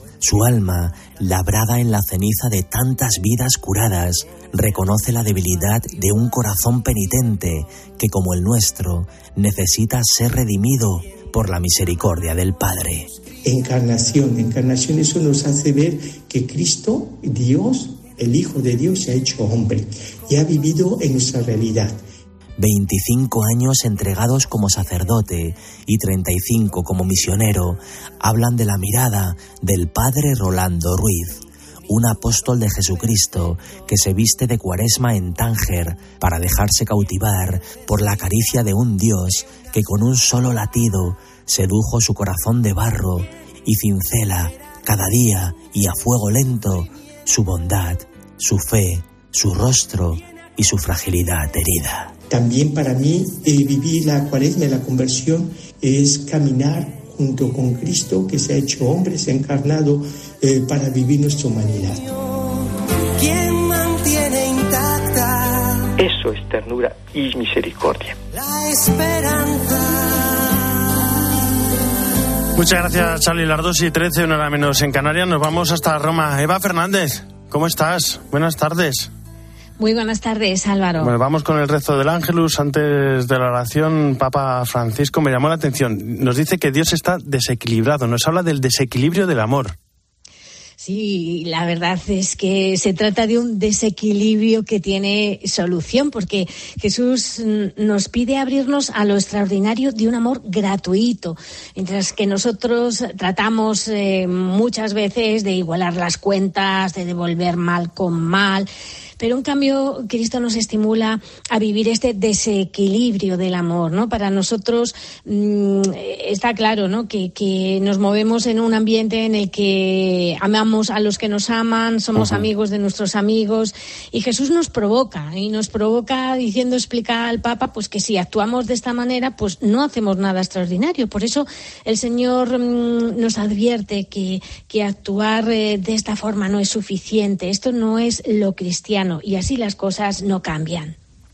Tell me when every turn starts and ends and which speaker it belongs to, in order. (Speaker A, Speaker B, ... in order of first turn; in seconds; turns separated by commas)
Speaker A: 0.2-13.1, Speaker B: 13.4-22.0, Speaker A: 22.6-52.1, Speaker B: 52.3-62.1, Speaker C: 63.2-65.9, Speaker D: 66.0-68.2, Speaker C: 68.3-70.7, Speaker E: 72.6-79.1, Speaker F: 79.8-81.1, Speaker E: 81.0-89.8, Speaker F: 90.8-108.7, Speaker F: 109.2-140.9, Speaker E: 122.2-122.5